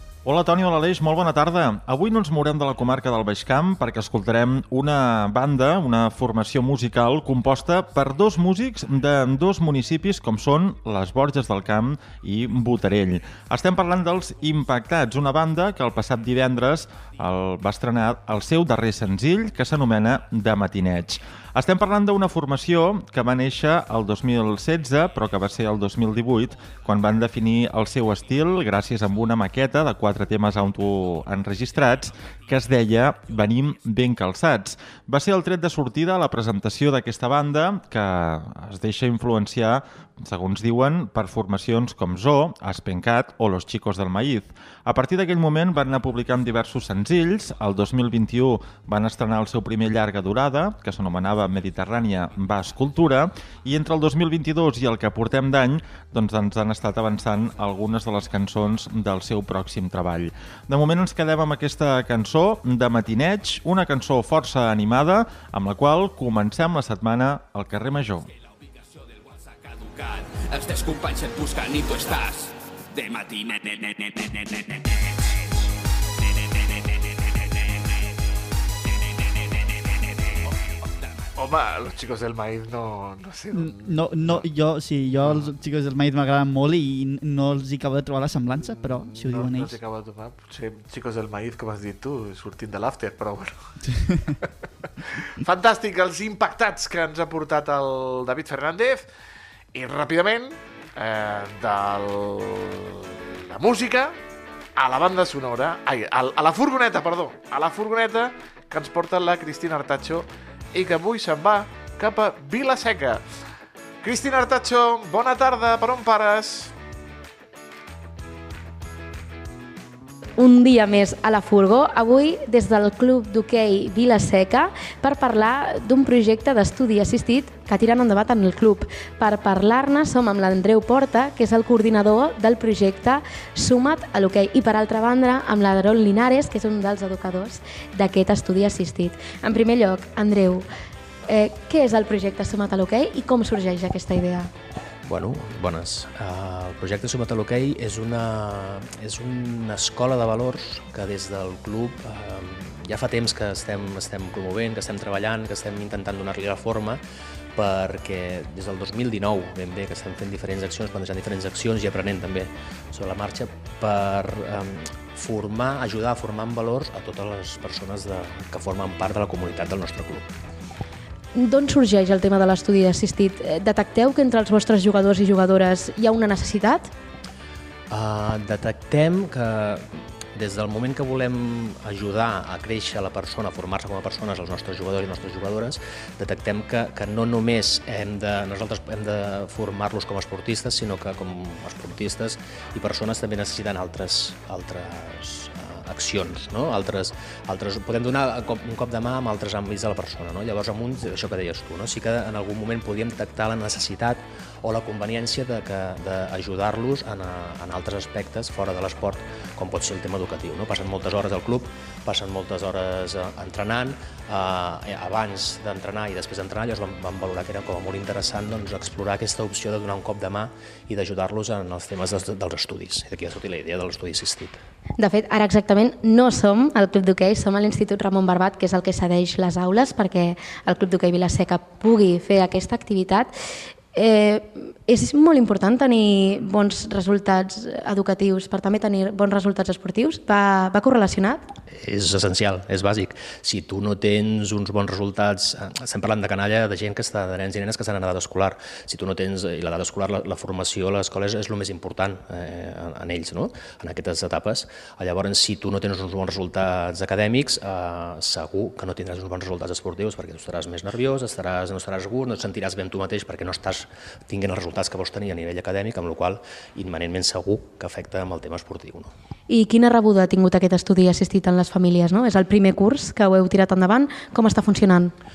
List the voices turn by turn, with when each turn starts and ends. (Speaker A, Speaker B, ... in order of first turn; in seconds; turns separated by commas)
Speaker A: 0.2-68.3, Speaker B: 26.6-27.2, Speaker B: 68.3-75.4, Speaker B: 76.3-77.8, Speaker B: 79.1-81.3, Speaker C: 81.4-84.5, Speaker D: 83.5-89.8, Speaker C: 85.2-85.5, Speaker C: 88.6-93.8, Speaker D: 93.9-94.3, Speaker C: 95.4-99.0, Speaker C: 99.7-104.2, Speaker C: 104.8-113.2, Speaker C: 114.0-116.7, Speaker E: 120.4-140.7, Speaker E: 141.3-144.5, Speaker F: 145.1-157.0, Speaker F: 157.6-170.3, Speaker E: 171.3-176.9, Speaker F: 177.9-224.6, Speaker E: 225.0-233.3, Speaker E: 233.9-241.4, Speaker F: 241.7-269.1, Speaker E: 269.5-275.1